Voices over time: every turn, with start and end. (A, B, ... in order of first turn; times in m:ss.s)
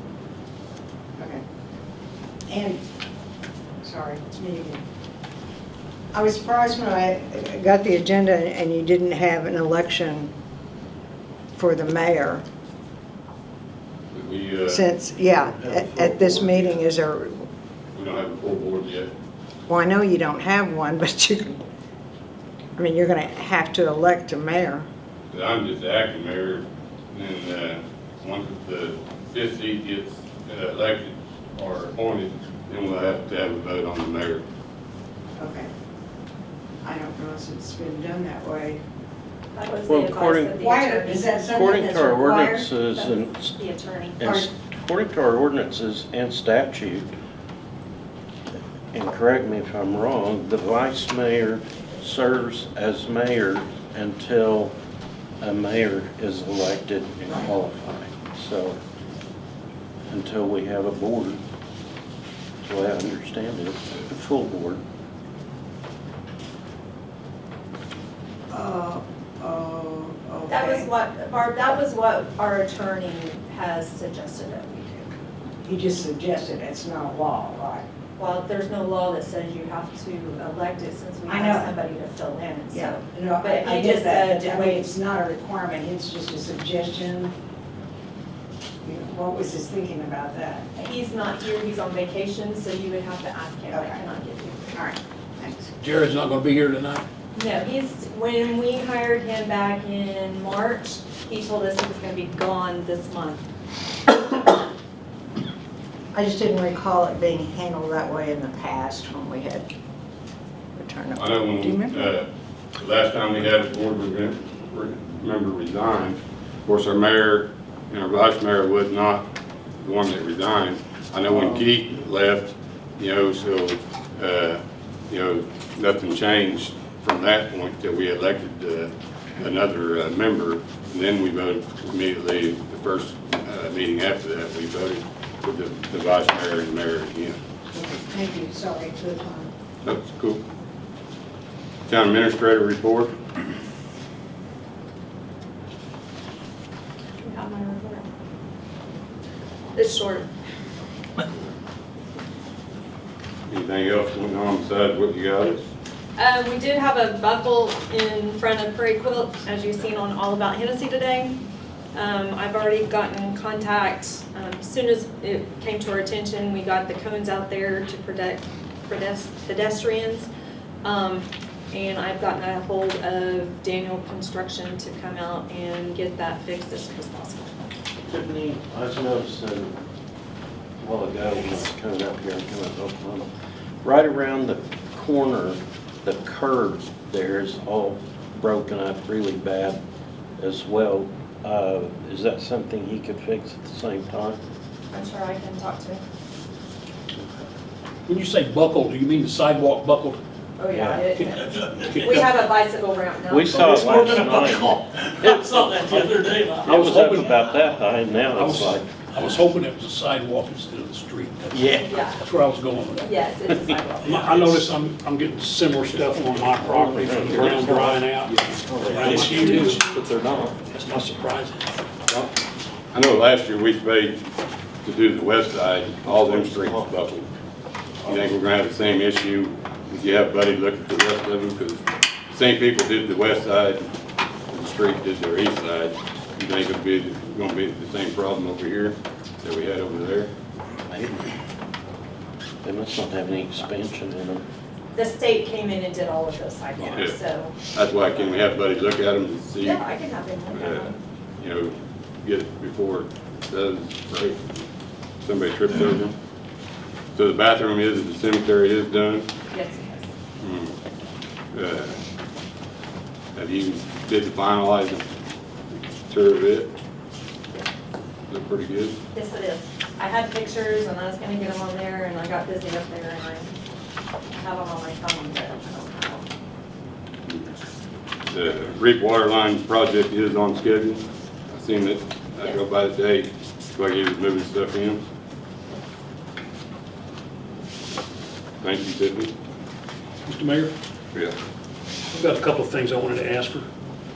0:01.2-0:01.4 A
0:02.5-0:02.8 A
0:03.8-0:04.8 A
0:06.1-0:10.3 A
0:11.5-0:12.4 A
0:14.1-0:14.9 B
0:14.7-0:17.4 A
0:15.2-0:16.8 C
0:17.9-0:19.1 B
0:19.7-0:21.6 A
0:22.8-0:24.8 A
0:25.3-0:34.4 B
0:35.4-0:35.7 A
0:36.8-0:38.8 A
0:39.5-0:41.4 D
0:39.8-0:40.6 C
0:40.6-0:42.7 A
0:41.4-0:43.6 C
0:42.8-0:44.2 D
0:44.2-0:47.1 C
0:44.2-0:44.5 A
0:48.9-0:54.7 C
0:55.4-0:58.8 C
1:00.1-1:01.4 C
1:02.6-1:04.8 C
1:08.5-1:10.9 A
1:10.5-1:15.1 D
1:15.6-1:17.8 A
1:18.2-1:24.9 D
1:21.3-1:21.7 A
1:22.7-1:27.3 A
1:28.8-1:30.7 A
1:30.8-1:34.8 D
1:33.7-1:34.0 A
1:34.7-1:35.7 A
1:35.8-1:37.0 E
1:37.3-1:43.4 D
1:46.1-1:49.7 A
1:50.8-1:52.1 A
1:51.2-1:59.3 B
1:59.8-2:17.4 B
2:01.2-2:01.6 A
2:17.7-2:19.5 A
2:19.8-2:20.4 B
2:21.9-2:23.1 B
2:27.2-2:28.0 D
2:29.7-2:30.3 D
2:33.5-2:35.6 B
2:36.2-2:41.4 D
2:41.9-2:50.3 D
2:50.8-2:57.5 D
2:58.0-2:59.8 C
3:00.8-3:03.3 C
3:03.8-3:09.8 C
3:10.4-3:14.4 C
3:14.9-3:16.0 D
3:18.0-3:20.2 E
3:20.6-3:23.7 D
3:20.7-3:21.0 C
3:21.3-3:22.4 E
3:23.3-3:28.9 C
3:23.5-3:27.4 E
3:26.2-3:26.5 F
3:28.3-3:33.1 E
3:31.5-3:31.9 C
3:31.8-3:32.2 D
3:33.0-3:34.5 D
3:34.0-3:39.8 E
3:36.6-3:39.5 C
3:37.4-3:37.9 F
3:38.8-3:40.5 F
3:40.7-3:41.7 E
3:42.9-3:44.2 B
3:44.8-3:47.3 B
3:48.0-3:53.8 B
3:54.5-4:00.3 B
4:00.9-4:01.3 C
4:02.6-4:04.4 C
4:04.9-4:08.2 D
4:06.8-4:07.2 B
4:07.7-4:09.8 B
4:09.6-4:11.0 D
4:10.5-4:14.4 B
4:15.2-4:16.1 B
4:17.1-4:19.3 B
4:19.5-4:20.1 D
4:20.4-4:20.8 B
4:21.5-4:22.0 B
4:23.3-4:25.0 B
4:26.1-4:26.7 B
4:28.3-4:29.0 B
4:29.1-4:33.5 D
4:34.3-4:36.2 D
4:37.3-4:37.5 B
4:38.3-4:45.0 B
4:48.6-4:49.3 B
4:50.2-4:50.7 E
4:52.1-4:53.7 E